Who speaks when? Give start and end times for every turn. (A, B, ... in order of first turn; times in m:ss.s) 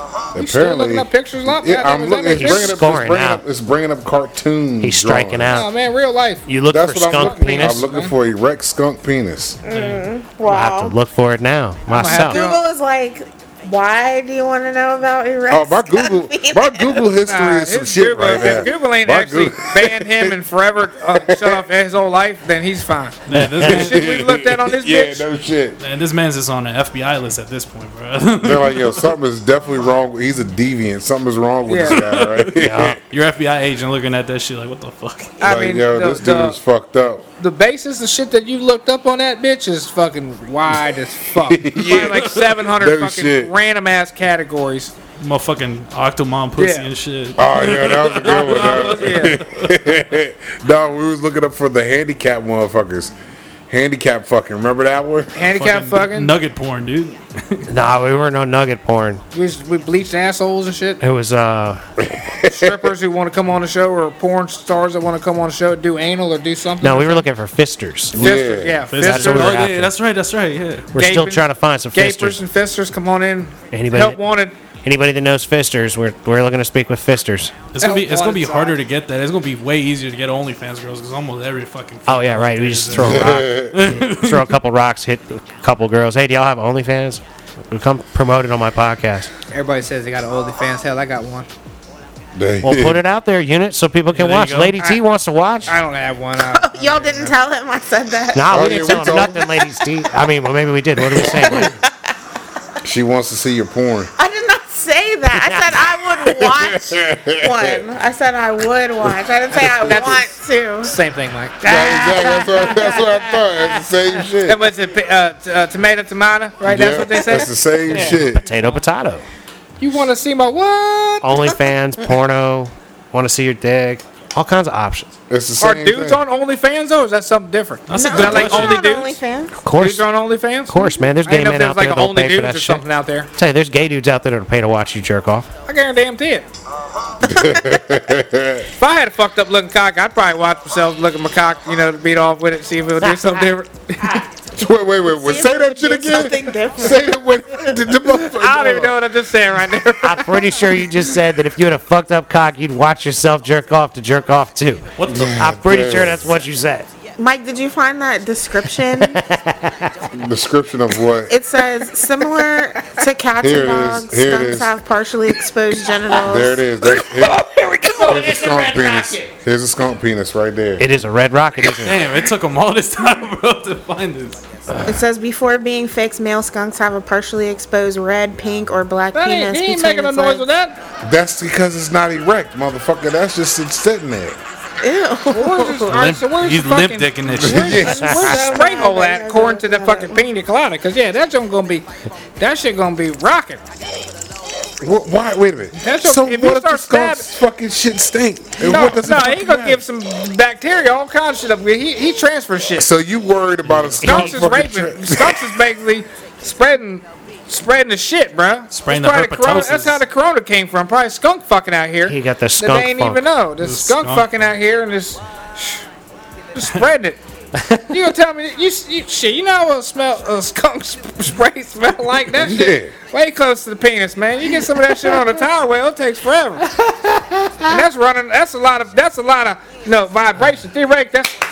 0:00.4-0:05.5 A
0:00.4-0:02.8 B
0:02.4-0:03.4 C
0:04.8-0:05.7 C
0:05.4-0:06.4 B
0:06.5-0:07.9 C
0:06.7-0:09.6 A
0:07.2-0:08.1 B
0:09.6-0:11.0 D
0:10.4-0:12.5 C
0:11.9-0:12.6 B
0:12.0-0:17.0 D
0:15.5-0:20.4 A
0:17.3-0:25.2 B
0:21.1-0:21.6 A
0:23.3-0:24.1 E
0:23.6-0:25.8 A
0:25.8-0:29.1 E
0:28.4-0:33.0 A
0:31.7-0:32.0 B
0:31.9-0:35.4 E
0:32.6-0:33.0 C
0:35.4-0:36.6 B
0:35.4-0:37.2 A
0:37.4-0:44.9 B
0:41.4-0:43.5 A
0:45.2-0:49.7 E
0:46.6-0:46.9 B
0:47.4-0:53.1 A
0:48.2-0:49.4 B
0:53.7-0:55.3 A
0:55.4-0:56.3 B
0:55.6-0:57.7 E
0:57.7-0:59.2 C
0:59.3-1:01.0 B
1:01.0-1:01.8 C
1:02.1-1:02.7 A
1:02.4-1:07.2 B
1:06.8-1:08.2 C
1:08.2-1:08.8 A
1:08.2-1:09.6 B
1:08.9-1:10.9 E
1:09.0-1:09.9 C
1:10.9-1:12.4 C
1:10.9-1:14.5 B
1:13.7-1:14.2 C
1:14.8-1:17.6 C
1:17.7-1:24.6 E
1:17.8-1:18.8 B
1:22.1-1:29.3 C
1:22.9-1:24.0 A
1:29.5-1:31.5 B
1:32.4-1:33.0 A
1:32.6-1:35.8 C
1:34.1-1:34.8 E
1:35.7-1:37.4 B
1:36.4-1:39.5 D
1:38.4-1:41.7 C
1:38.5-1:39.5 A
1:41.1-1:41.7 A
1:41.2-1:41.8 D
1:42.8-1:44.1 A
1:44.2-1:51.0 D
1:46.2-1:47.8 A
1:49.0-1:50.2 A
1:49.7-1:50.3 B
1:50.8-1:53.0 B
1:51.6-1:54.6 A
1:51.9-1:52.4 C
1:54.5-1:58.2 B
1:56.7-1:58.4 A
1:58.0-1:59.2 C
1:59.8-2:01.4 B
2:01.2-2:05.1 C
2:05.3-2:06.2 A
2:05.6-2:09.2 B
2:07.9-2:08.9 E
2:07.9-2:09.6 D
2:09.6-2:10.0 C
2:09.7-2:13.3 B
2:10.7-2:12.8 C
2:13.4-2:15.5 C
2:15.7-2:16.5 B
2:17.2-2:18.7 A
2:18.8-2:24.3 B
2:24.6-2:29.0 A
2:25.1-2:27.2 D
2:28.3-2:30.8 B
2:30.0-2:36.9 C
2:35.0-2:35.4 E
2:35.1-2:36.3 A
2:37.2-2:39.2 D
2:39.0-2:39.9 C
2:40.1-2:41.3 A
2:41.3-2:46.6 D
2:43.4-2:44.8 A
2:46.2-2:47.4 A
2:47.6-2:49.2 C
2:48.0-2:50.9 A
2:50.8-2:52.0 C
2:51.6-2:54.4 E
2:54.8-3:00.4 D
2:59.1-3:00.8 B
3:01.0-3:04.4 A
3:04.8-3:06.0 D
3:05.3-3:11.9 B
3:05.9-3:07.9 E
3:07.4-3:08.4 A
3:07.5-3:10.2 D
3:12.4-3:13.6 B
3:14.8-3:19.8 A
3:15.8-3:17.3 B
3:18.6-3:22.9 B
3:22.8-3:25.5 A
3:23.7-3:24.0 E
3:24.0-3:35.8 B
3:28.7-3:30.0 E
3:32.1-3:33.2 C
3:33.6-3:34.4 E
3:36.6-3:37.2 B
3:37.6-3:37.9 C
3:37.9-3:46.7 B
3:42.4-3:42.9 A
3:47.1-3:47.6 A
3:47.7-3:51.4 B